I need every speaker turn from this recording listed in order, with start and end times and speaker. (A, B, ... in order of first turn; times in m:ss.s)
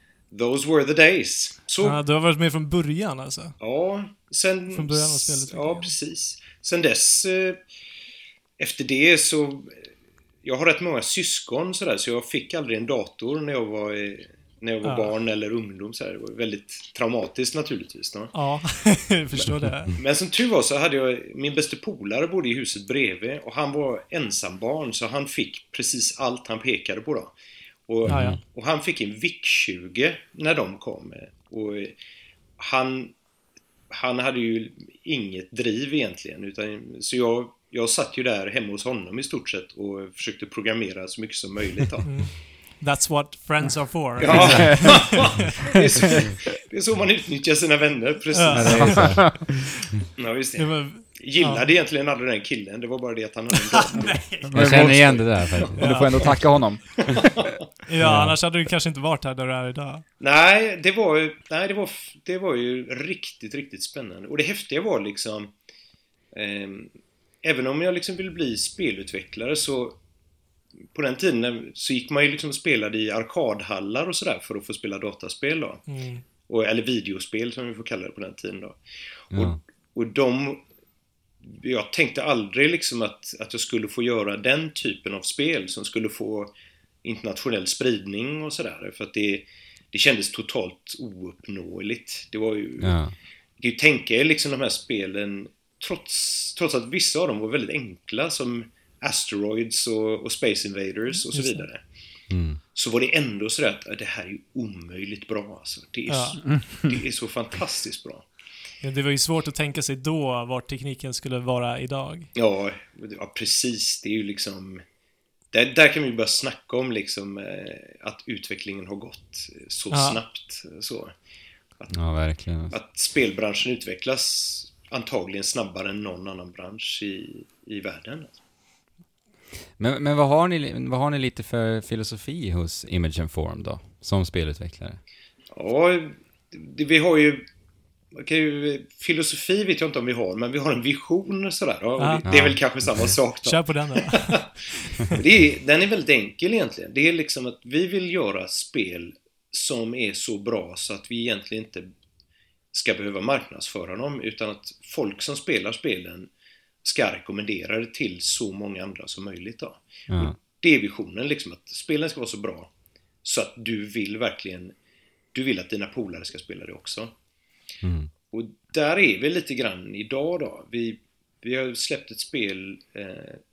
0:00.3-0:02.0 A
0:01.8-0:03.5 B
0:03.6-0:07.6 A
0:04.7-0:05.9 B
0:08.6-0:09.8 A
0:10.4-0:18.3 A
0:14.8-0:15.1 B
0:18.3-0:19.9 B
0:19.9-0:27.3 A
0:27.9-0:32.0 A
0:28.0-0:28.4 C
0:28.1-0:28.4 B
0:32.6-0:33.1 A
0:33.9-0:42.1 A
0:42.0-0:45.5 B
0:44.2-0:49.2 A
0:44.3-0:45.3 D
0:48.3-0:49.4 B
0:48.5-0:49.5 C
0:50.1-0:54.3 A
0:50.6-0:51.6 B
0:53.5-0:54.8 B
0:54.5-0:57.2 D
0:54.5-0:56.3 C
0:55.8-0:56.4 B
0:57.1-0:57.6 A
0:57.8-1:00.0 B
0:58.0-0:58.3 C
1:00.2-1:05.5 A
1:06.3-1:06.9 A
1:07.4-1:10.0 A
1:10.9-1:15.9 A
1:15.9-1:16.2 B
1:16.5-1:18.8 A
1:19.3-1:20.6 A
1:19.3-1:19.6 C
1:21.4-1:26.5 A
1:27.0-1:33.0 A
1:32.8-1:33.1 C
1:33.6-1:41.8 A
1:41.2-1:41.6 B
1:42.3-1:42.6 C
1:42.7-1:48.2 A
1:46.1-1:46.4 B
1:48.8-1:52.3 B
1:52.3-1:54.8 A
1:55.5-2:01.1 A
1:59.9-2:00.2 B
2:01.9-2:02.8 C
2:02.7-2:08.4 A
2:09.8-2:15.0 C
2:15.5-2:17.4 A
2:18.1-2:31.9 A
2:22.0-2:22.3 B
2:22.2-2:23.1 C
2:23.4-2:24.4 B
2:32.7-2:36.3 A
2:36.8-2:42.7 A
2:40.1-2:40.4 C
2:43.2-2:44.7 A
2:45.3-2:47.1 A
2:47.8-2:48.1 C
2:48.3-2:53.4 A